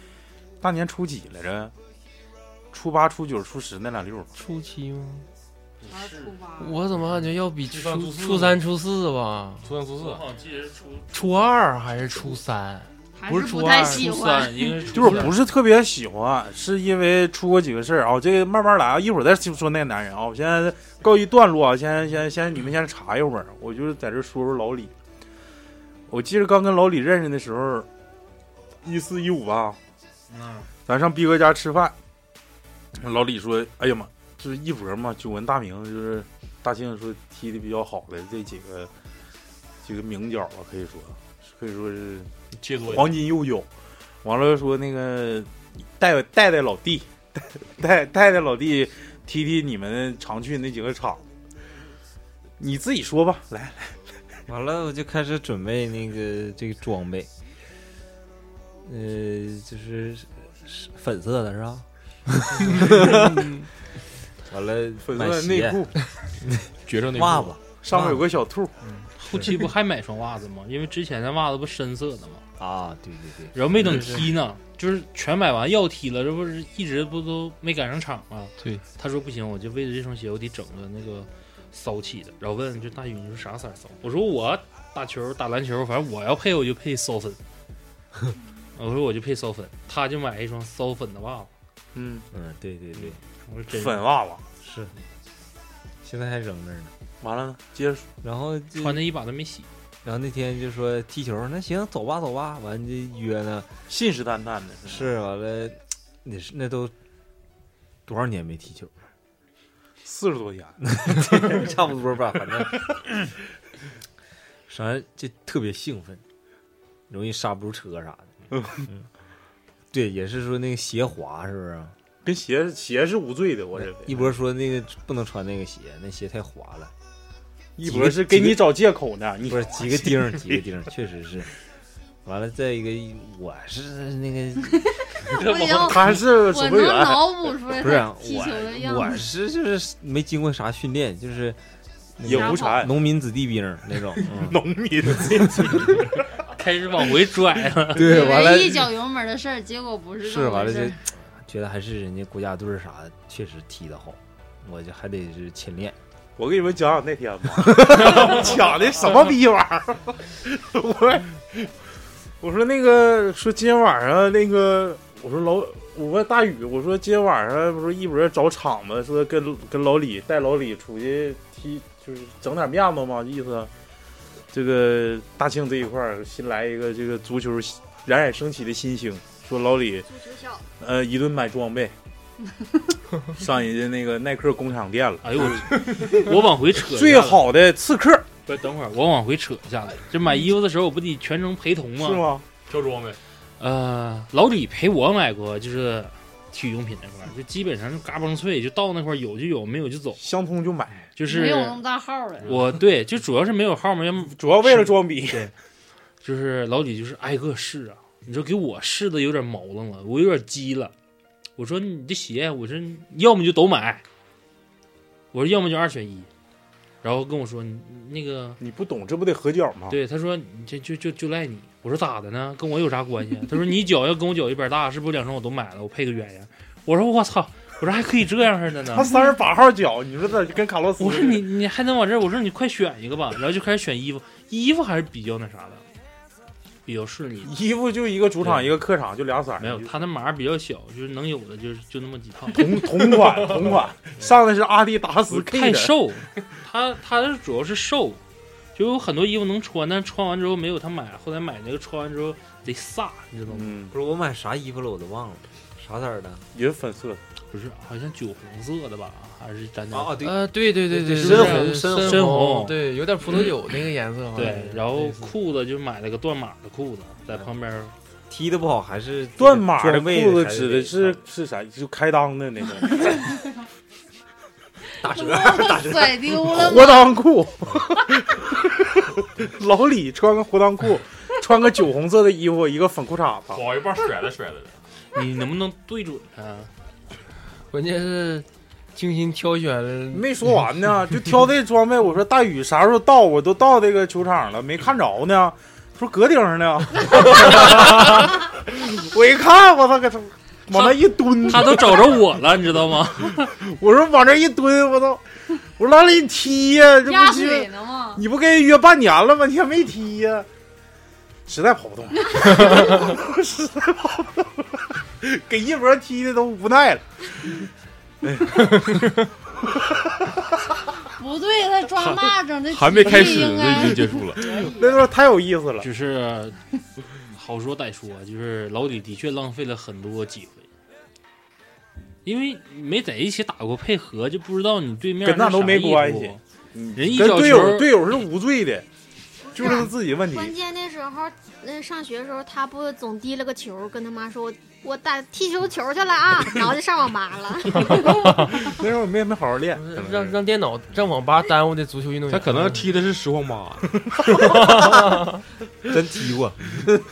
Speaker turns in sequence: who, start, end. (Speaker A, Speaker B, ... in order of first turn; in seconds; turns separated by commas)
Speaker A: 0.6-1.7, Speaker A: 2.7-4.3, Speaker B: 4.4-5.3, Speaker C: 5.8-6.4, Speaker D: 5.9-6.8, Speaker B: 6.6-9.7, Speaker E: 7.7-8.6, Speaker E: 9.6-10.2, Speaker C: 10.0-11.4, Speaker B: 11.1-14.1, Speaker D: 13.2-14.9, Speaker C: 13.7-15.4, Speaker A: 14.9-24.9, Speaker A: 26.1-27.9, Speaker A: 28.8-29.8, Speaker C: 30.3-30.7, Speaker A: 30.9-31.9, Speaker A: 33.0-38.9, Speaker A: 39.8-43.7, Speaker E: 42.5-43.2, Speaker A: 44.2-51.2, Speaker A: 52.6-54.1, Speaker F: 54.5-57.3, Speaker F: 58.8-61.9, Speaker F: 62.5-63.5, Speaker B: 62.8-63.7, Speaker F: 64.5-65.9, Speaker A: 65.0-65.9, Speaker E: 66.9-67.5, Speaker F: 67.1-67.6, Speaker A: 67.8-68.8, Speaker C: 68.9-72.4, Speaker F: 69.3-69.6, Speaker F: 72.6-74.3, Speaker C: 73.5-87.4, Speaker C: 88.8-91.5, Speaker A: 92.0-92.3, Speaker F: 92.3-93.2, Speaker C: 93.5-94.1, Speaker A: 93.7-94.4, Speaker F: 94.6-94.9, Speaker F: 96.0-96.9, Speaker A: 97.2-98.1, Speaker F: 98.2-99.0, Speaker C: 98.8-99.7, Speaker F: 100.0-103.7, Speaker A: 103.9-105.1, Speaker F: 104.9-106.9, Speaker F: 108.1-109.0, Speaker A: 110.0-110.8, Speaker F: 110.8-113.0, Speaker F: 114.7-116.2, Speaker F: 117.1-118.3, Speaker A: 118.5-118.8, Speaker F: 119.9-122.0, Speaker A: 122.2-124.3, Speaker F: 123.8-126.9, Speaker A: 127.8-130.6, Speaker F: 127.8-128.7, Speaker F: 129.5-131.5, Speaker F: 132.2-134.8, Speaker D: 135.3-139.3, Speaker C: 135.5-135.9, Speaker A: 135.7-137.4, Speaker F: 137.8-141.6, Speaker F: 142.2-144.6, Speaker A: 142.2-142.9, Speaker D: 142.3-142.9, Speaker A: 144.2-146.2, Speaker C: 146.5-148.2, Speaker F: 147.9-148.9, Speaker D: 148.0-151.0, Speaker F: 150.2-156.0, Speaker A: 156.4-161.7, Speaker A: 162.4-173.7, Speaker A: 174.5-180.1, Speaker G: 180.1-180.7, Speaker A: 180.8-181.9, Speaker A: 183.3-186.2, Speaker C: 185.2-187.5, Speaker A: 186.8-188.3, Speaker C: 188.5-192.3, Speaker A: 192.0-192.5, Speaker E: 192.7-193.2, Speaker C: 193.6-200.2, Speaker A: 200.2-201.1, Speaker C: 201.2-201.8, Speaker D: 201.2-202.6, Speaker C: 202.4-205.5, Speaker A: 204.2-205.5, Speaker C: 206.2-210.9, Speaker C: 211.6-214.0, Speaker C: 215.3-216.3, Speaker C: 217.0-218.6, Speaker A: 218.6-220.0, Speaker C: 219.9-229.1, Speaker A: 228.9-231.4, Speaker C: 231.0-235.8, Speaker C: 236.8-237.5, Speaker A: 237.4-240.0, Speaker C: 238.4-238.7, Speaker C: 239.6-242.9, Speaker A: 242.5-245.9, Speaker C: 245.3-248.2, Speaker C: 248.8-253.8, Speaker A: 253.5-253.9, Speaker F: 253.9-256.4, Speaker A: 256.5-257.2, Speaker C: 257.5-260.2, Speaker F: 259.9-262.4, Speaker B: 260.2-265.3, Speaker C: 261.2-262.8, Speaker C: 264.4-267.9, Speaker F: 268.3-271.2, Speaker A: 269.4-273.3, Speaker D: 275.0-277.1, Speaker F: 275.0-276.2, Speaker A: 276.3-283.6, Speaker E: 283.5-284.8, Speaker C: 285.1-286.7, Speaker B: 287.7-290.3, Speaker A: 290.1-302.2, Speaker C: 300.7-303.5, Speaker A: 303.4-305.2, Speaker A: 305.8-310.5, Speaker D: 307.0-308.2, Speaker A: 311.5-317.5, Speaker A: 318.2-320.4, Speaker D: 321.2-325.0, Speaker E: 322.0-324.4, Speaker A: 324.6-325.9, Speaker C: 325.8-326.6, Speaker C: 327.3-330.7, Speaker C: 332.2-336.4, Speaker A: 335.2-338.9, Speaker C: 336.9-338.0, Speaker G: 339.5-348.7, Speaker A: 339.5-340.6, Speaker A: 347.9-350.4, Speaker B: 349.8-352.9, Speaker E: 352.3-353.9, Speaker A: 354.3-354.6, Speaker B: 354.4-355.3, Speaker F: 355.9-356.8